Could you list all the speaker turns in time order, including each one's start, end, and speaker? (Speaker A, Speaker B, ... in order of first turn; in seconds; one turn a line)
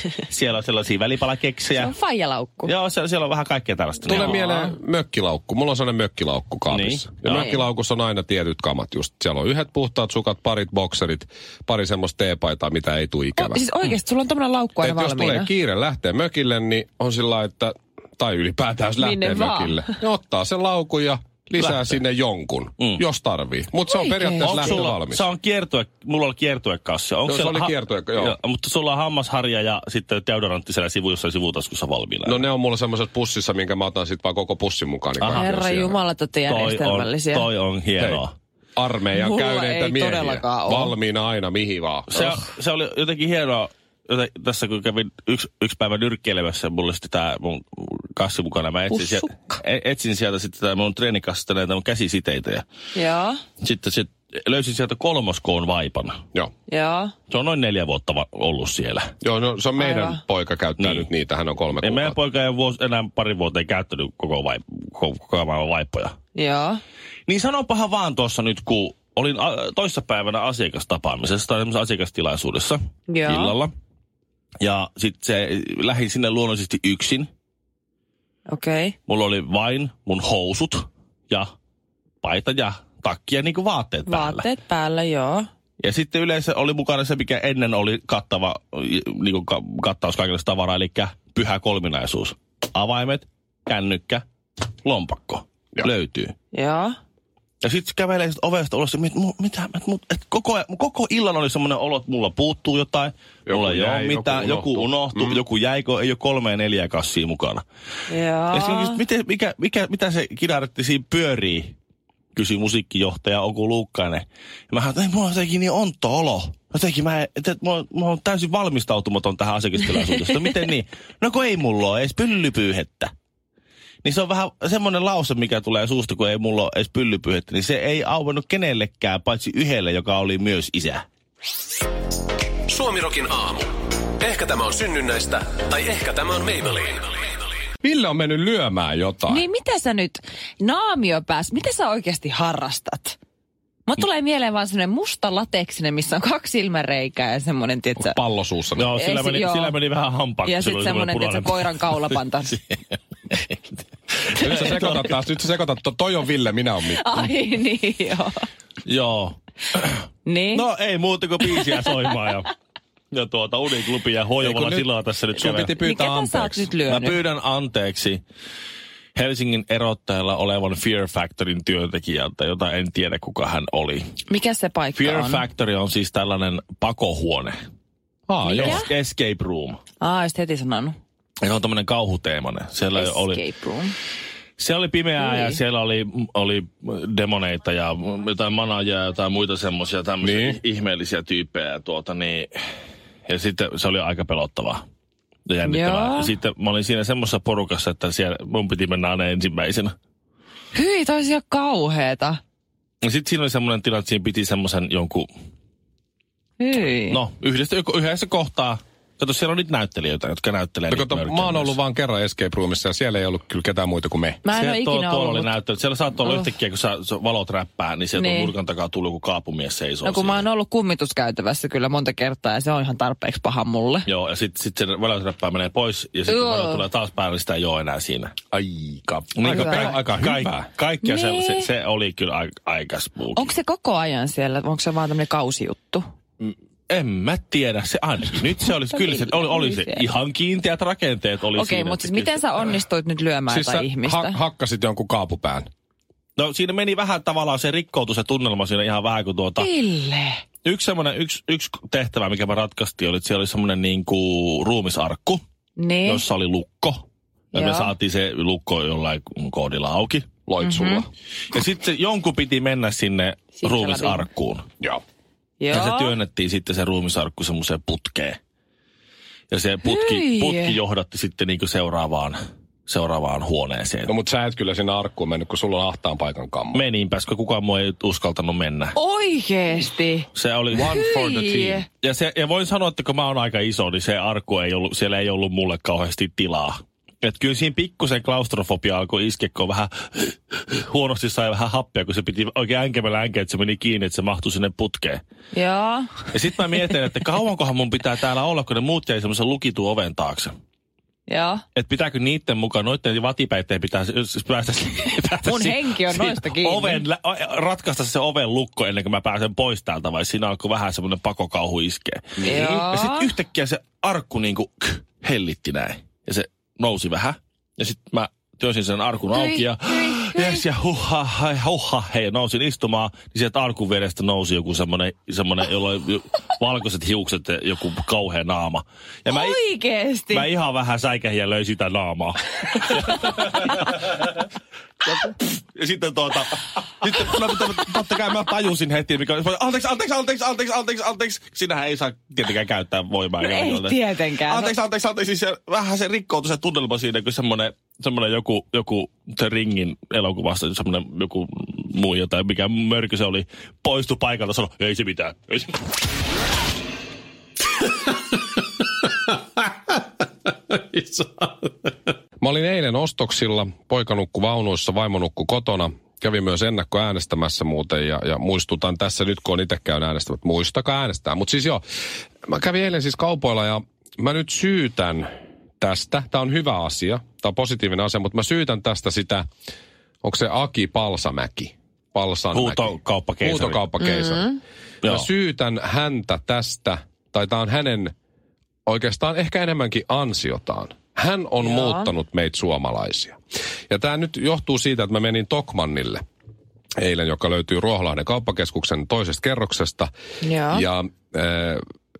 Speaker A: 0.2-1.9
Speaker B: 1.7-2.7
Speaker A: 2.6-4.4
Speaker C: 4.1-13.6
Speaker B: 4.1-4.7
Speaker A: 6.7-7.5
Speaker B: 7.3-7.6
Speaker B: 13.4-15.5
Speaker C: 14.8-25.2
Speaker B: 19.0-19.9
Speaker A: 21.6-22.0
Speaker B: 23.9-24.8
Speaker A: 24.4-32.5
Speaker C: 27.2-28.4
Speaker C: 32.2-36.0
Speaker A: 35.2-35.5
Speaker B: 35.3-37.5
Speaker A: 36.5-38.3
Speaker C: 38.0-38.2
Speaker C: 38.8-42.4
Speaker B: 39.1-40.9
Speaker A: 42.1-52.6
Speaker B: 48.9-49.5
Speaker B: 52.9-53.4
Speaker A: 53.6-56.2
Speaker B: 56.7-57.1
Speaker A: 57.3-59.1
Speaker C: 59.2-62.2
Speaker B: 59.8-60.2
Speaker A: 60.8-61.1
Speaker A: 61.8-66.2
Speaker B: 66.3-66.8
Speaker A: 67.3-73.7
Speaker B: 73.1-73.5
Speaker A: 74.6-77.3
Speaker B: 78.5-78.9
Speaker A: 79.1-81.5
Speaker A: 82.2-84.5
Speaker B: 84.1-85.5
Speaker A: 85.8-94.2
Speaker A: 94.8-96.3
Speaker B: 96.5-96.9
Speaker A: 97.6-107.6
Speaker C: 103.5-105.4
Speaker B: 108.1-109.0
Speaker A: 108.5-111.8
Speaker A: 112.3-123.1
Speaker A: 124.0-131.0
Speaker D: 132.7-133.7
Speaker D: 134.2-137.3
Speaker C: 137.8-139.4
Speaker B: 139.3-143.2
Speaker B: 143.8-148.2
Speaker C: 147.9-148.9
Speaker A: 148.8-152.8
Speaker B: 148.9-149.8
Speaker B: 150.4-152.6
Speaker A: 153.3-153.6
Speaker A: 154.3-155.1
Speaker C: 154.3-157.3
Speaker B: 156.9-158.4
Speaker A: 158.8-160.0
Speaker B: 160.2-160.7
Speaker A: 160.5-162.5
Speaker A: 163.1-165.7
Speaker C: 164.4-166.7
Speaker B: 165.8-167.2
Speaker A: 166.8-168.2
Speaker A: 169.1-174.1
Speaker B: 174.3-175.4
Speaker A: 174.9-177.6
Speaker C: 178.3-178.8
Speaker B: 178.4-178.9
Speaker A: 178.4-179.8
Speaker B: 180.0-181.0
Speaker A: 181.4-183.4
Speaker B: 182.9-183.9
Speaker A: 184.6-192.5
Speaker B: 185.2-185.6
Speaker C: 190.2-190.6
Speaker A: 193.2-194.8
Speaker A: 195.5-199.9
Speaker B: 195.6-196.3
Speaker B: 200.7-202.4
Speaker A: 203.0-205.3
Speaker B: 206.6-207.2
Speaker A: 207.1-211.8
Speaker C: 210.9-214.4
Speaker B: 214.4-215.5
Speaker A: 214.5-220.4
Speaker B: 218.2-218.5
Speaker B: 220.0-224.1
Speaker A: 224.1-228.3
Speaker B: 226.3-226.8
Speaker C: 228.5-230.7
Speaker A: 229.4-233.5
Speaker B: 229.4-229.9
Speaker B: 231.0-231.7
Speaker B: 233.3-236.1
Speaker A: 236.4-242.4
Speaker B: 238.9-240.1
Speaker B: 241.5-244.4
Speaker C: 243.5-245.7
Speaker A: 246.4-249.7
Speaker B: 249.6-250.4
Speaker A: 250.6-255.4
Speaker B: 255.8-256.2
Speaker A: 256.1-260.4
Speaker B: 257.5-257.9
Speaker C: 260.5-261.1
Speaker B: 260.6-261.0
Speaker A: 261.5-264.6
Speaker B: 263.5-264.3
Speaker B: 265.6-266.1
Speaker A: 265.7-268.4
Speaker A: 269.5-274.1
Speaker B: 269.9-270.8
Speaker C: 274.1-276.8
Speaker A: 276.7-278.9
Speaker B: 278.9-280.3
Speaker A: 280.3-295.2
Speaker C: 280.7-281.2
Speaker B: 280.8-281.8
Speaker B: 295.5-296.3
Speaker A: 296.3-300.5
Speaker B: 301.3-301.6
Speaker A: 301.7-329.6
Speaker B: 305.4-307.0
Speaker B: 312.4-313.3
Speaker B: 319.3-320.6
Speaker B: 329.3-330.4
Speaker A: 330.3-334.4
Speaker B: 332.9-333.3
Speaker A: 335.0-355.8
Speaker B: 343.4-344.8
Speaker D: 360.9-361.7
Speaker C: 362.4-371.8
Speaker C: 372.4-375.3
Speaker C: 375.8-379.4
Speaker C: 380.2-388.1
Speaker A: 382.5-383.8
Speaker B: 384.0-384.6
Speaker C: 388.9-393.4
Speaker B: 391.6-392.1
Speaker C: 393.9-396.2
Speaker C: 397.0-400.1
Speaker B: 400.4-400.9
Speaker C: 400.7-401.8